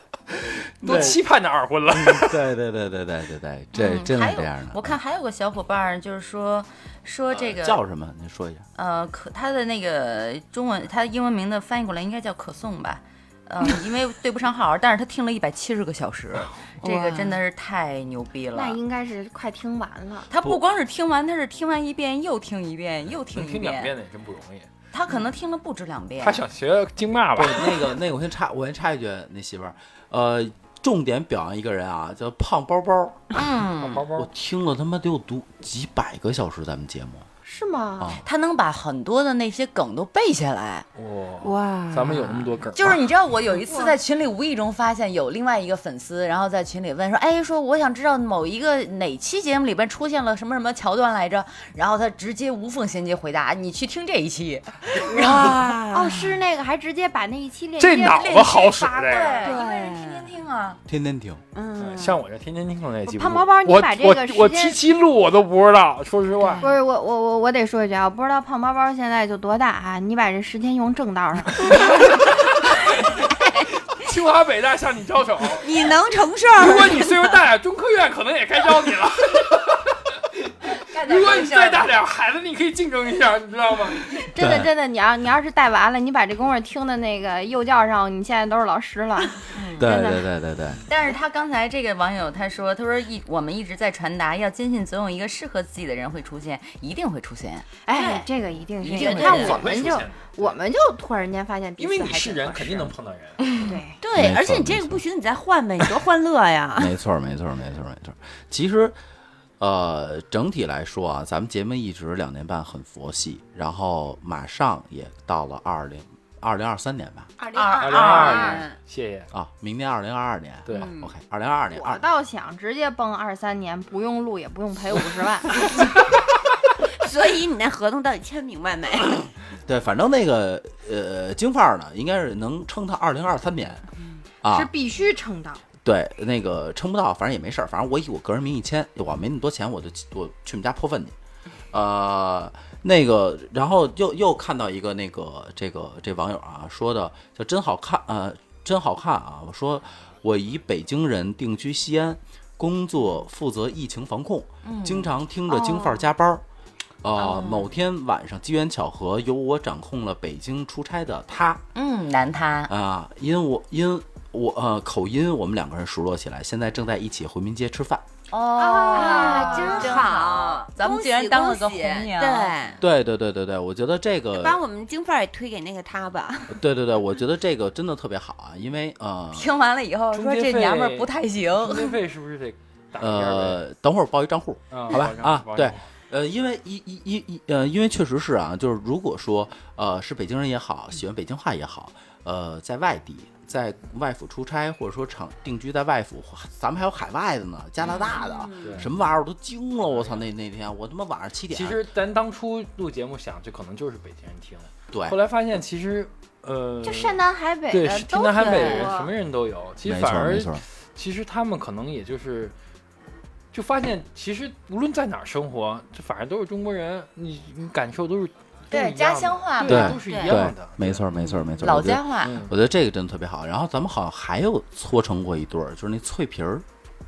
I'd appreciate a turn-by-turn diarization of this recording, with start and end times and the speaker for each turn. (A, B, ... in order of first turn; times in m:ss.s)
0:00.8-0:01.2 A
0:00.8-0:02.5 B
0:01.9-0:05.0 A
0:03.8-0:07.8 C
0:07.3-0:08.7 A
0:08.8-0:18.8 C
0:16.8-0:17.4 D
0:18.5-0:20.3 E
0:20.3-0:23.9 C
0:23.3-0:24.7 B
0:24.9-0:26.4 C
0:26.2-0:27.8 B
0:27.4-0:33.3 A
0:33.3-0:34.0 C
0:33.7-0:34.3 B
0:34.2-0:37.3 A
0:37.4-0:38.2 E
0:38.0-0:38.2 A
0:38.2-0:40.9 C
0:41.0-0:43.1 B
0:41.4-0:42.4 D
0:42.7-0:55.8 C
0:43.7-0:44.0 E
0:55.1-0:56.2 D
0:55.3-0:55.6 B
0:55.9-0:59.7 E
0:57.8-0:59.4 B
0:58.2-1:00.8 C
0:59.4-1:00.3 D
1:00.9-1:01.4 A
1:01.6-1:02.2 D
1:01.8-1:06.7 B
1:03.0-1:04.8 E
1:06.4-1:06.8 D
1:06.6-1:11.8 E
1:11.6-1:15.8 B
1:15.6-1:17.4 D
1:16.6-1:24.2 B
1:20.9-1:21.9 C
1:24.2-1:30.3 E
1:24.4-1:24.7 A
1:29.8-1:30.8 A
1:30.9-1:37.7 C
1:37.9-1:43.0 E
1:37.9-1:38.3 D
1:38.8-1:39.6 C
1:38.9-1:39.6 D
1:39.0-1:40.6 B
1:41.8-1:43.6 B
1:43.6-1:44.0 E
1:44.0-1:47.0 D
1:44.1-1:45.0 A
1:46.8-1:49.0 A
1:49.6-1:57.3 A
1:57.4-1:58.8 D
1:57.5-1:58.6 C
1:57.8-1:59.3 B
1:59.3-2:02.0 A
2:00.7-2:01.0 B
2:00.7-2:01.1 D
2:01.7-2:05.7 E
2:06.9-2:09.2 D
2:09.7-2:13.9 A
2:14.4-2:14.7 A
2:14.5-2:15.6 E
2:15.8-2:21.2 A
2:21.7-2:36.4 A
2:34.6-2:35.1 C
2:35.7-2:36.0 E
2:37.0-2:41.6 A
2:37.2-2:37.7 D
2:41.8-2:42.7 C
2:42.7-2:48.0 A
2:48.3-2:52.6 C
2:48.6-2:50.0 E
2:48.8-2:52.8 D
2:52.8-2:54.6 A
2:54.4-2:56.6 D
2:56.5-2:59.5 A
2:59.3-3:02.0 C
3:00.1-3:03.6 B
3:03.0-3:21.8 A
3:04.7-3:05.8 B
3:17.8-3:18.9 D
3:18.6-3:18.9 B
3:19.8-3:20.2 B
3:21.5-3:32.5 B
3:24.9-3:25.2 A
3:26.8-3:29.1 E
3:28.4-3:28.9 D
3:29.8-3:30.6 A
3:33.5-3:41.1 B
3:38.7-3:40.0 C
3:39.6-3:40.4 D
3:39.7-3:46.6 A
3:41.2-3:42.4 C
3:42.2-3:42.5 B